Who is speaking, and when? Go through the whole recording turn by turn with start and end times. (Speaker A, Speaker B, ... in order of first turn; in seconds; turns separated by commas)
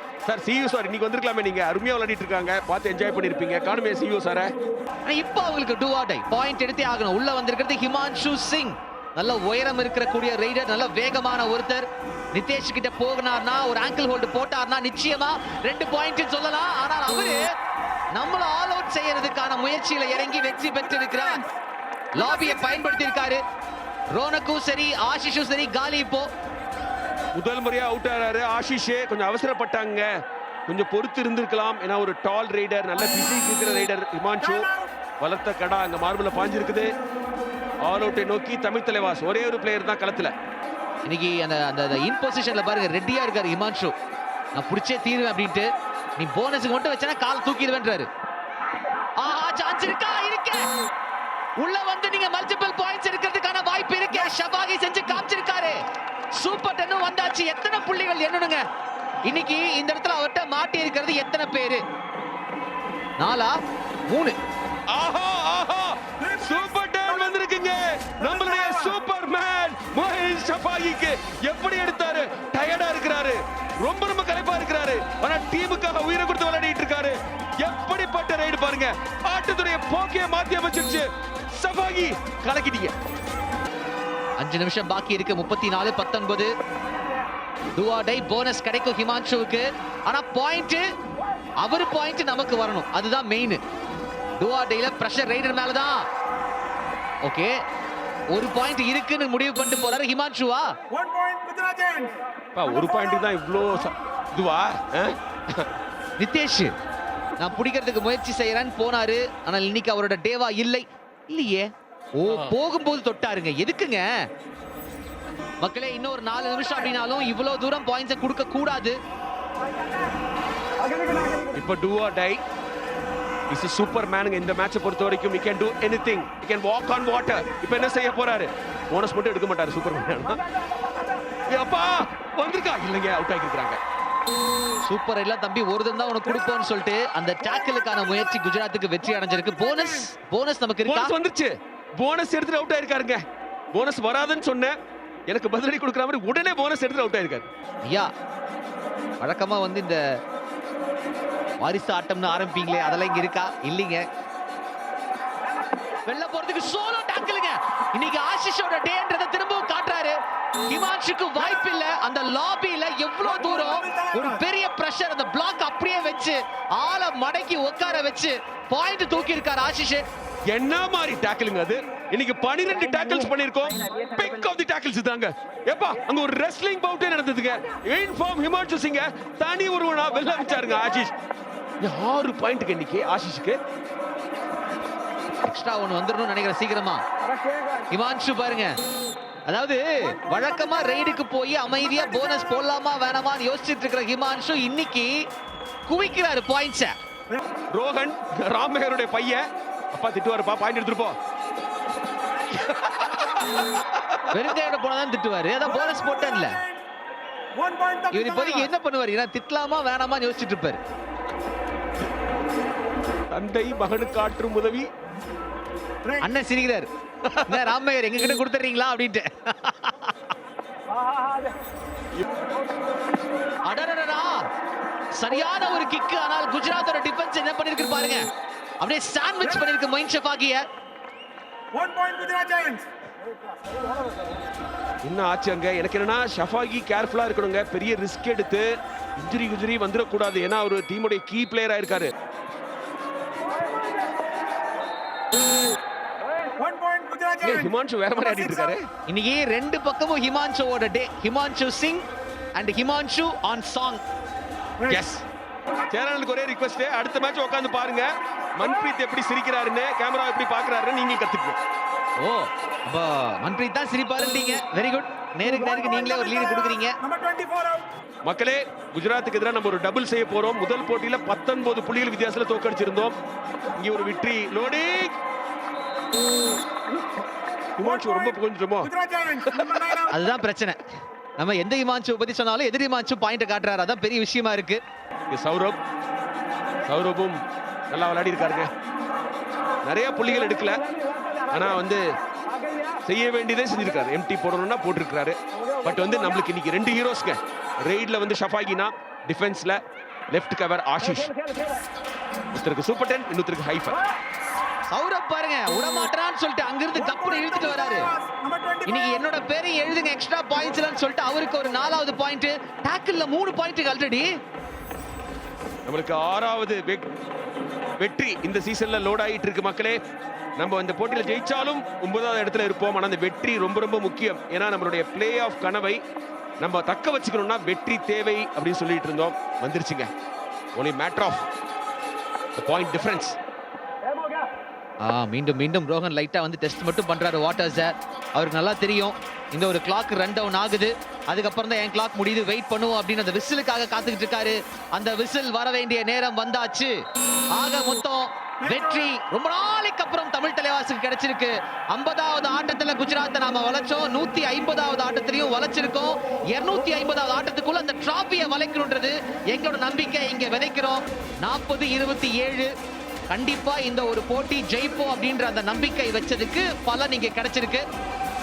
Speaker A: 0.2-4.5, Speaker B: 5.1-17.4, Speaker B: 18.1-21.4, Speaker C: 20.1-21.6, Speaker C: 22.1-23.3, Speaker B: 22.1-23.4, Speaker B: 24.1-26.3, Speaker A: 27.3-30.1, Speaker A: 30.7-34.7, Speaker C: 34.4-34.9, Speaker A: 35.2-36.9, Speaker A: 37.8-40.3, Speaker B: 41.1-43.9, Speaker B: 44.5-48.1, Speaker B: 49.2-50.7, Speaker B: 51.6-55.8, Speaker B: 56.4-58.6, Speaker B: 59.3-61.8, Speaker B: 63.2-63.5, Speaker B: 64.1-64.4, Speaker A: 64.9-82.9, Speaker C: 66.2-67.3, Speaker C: 68.2-69.0, Speaker B: 84.4-86.5, Speaker B: 87.8-90.9, Speaker B: 91.6-93.6, Speaker B: 94.4-96.0, Speaker B: 97.2-97.6, Speaker B: 98.3-100.7, Speaker C: 100.9-102.2, Speaker A: 102.5-105.7, Speaker B: 106.2-106.7, Speaker B: 107.4-114.1, Speaker A: 112.2-112.6, Speaker B: 115.6-119.0, Speaker A: 121.5-122.4, Speaker A: 123.5-130.4, Speaker A: 131.5-133.8, Speaker B: 134.8-141.1, Speaker C: 137.4-140.1, Speaker A: 140.8-144.8, Speaker A: 145.3-147.5, Speaker B: 149.2-150.0, Speaker B: 151.6-154.1, Speaker B: 156.1-160.2, Speaker B: 160.7-170.1, Speaker C: 161.4-161.7, Speaker C: 163.2-164.4, Speaker A: 170.5-181.1, Speaker A: 181.8-183.6, Speaker B: 185.5-187.0, Speaker B: 187.9-188.7, Speaker B: 189.5-195.1, Speaker C: 190.0-191.2, Speaker C: 191.8-192.7, Speaker B: 195.9-196.9, Speaker A: 197.7-201.2, Speaker A: 202.5-204.6, Speaker B: 204.3-206.6, Speaker C: 205.7-206.8, Speaker C: 207.6-208.7, Speaker B: 208.1-210.8, Speaker A: 213.3-214.9, Speaker C: 216.0-216.3, Speaker B: 216.2-216.9, Speaker A: 217.2-217.7, Speaker B: 217.4-220.3, Speaker B: 223.7-224.4, Speaker B: 225.2-228.3, Speaker B: 228.8-230.6, Speaker C: 231.7-232.9, Speaker A: 235.0-242.1, Speaker C: 246.6-248.8, Speaker A: 247.4-248.9, Speaker B: 249.1-252.0, Speaker B: 252.6-254.0, Speaker A: 254.9-255.2, Speaker A: 255.9-261.6, Speaker B: 262.2-267.0, Speaker C: 265.4-267.9, Speaker A: 268.2-273.2, Speaker A: 273.8-275.1, Speaker A: 277.8-278.9, Speaker C: 277.8-280.2, Speaker A: 279.5-280.0, Speaker B: 280.1-280.8, Speaker B: 281.4-284.8, Speaker A: 285.3-285.8, Speaker A: 286.8-288.7, Speaker A: 289.8-290.8, Speaker A: 291.5-292.0, Speaker A: 293.0-301.3, Speaker A: 302.5-304.0, Speaker B: 304.9-308.1, Speaker C: 306.9-309.3, Speaker B: 308.9-314.3, Speaker A: 315.9-317.1, Speaker A: 318.0-320.0, Speaker A: 320.6-326.0, Speaker A: 326.6-330.1, Speaker A: 330.8-331.5, Speaker A: 332.6-333.4, Speaker B: 335.0-346.9, Speaker B: 347.6-362.7, Speaker C: 348.6-349.1, Speaker B: 363.3-367.8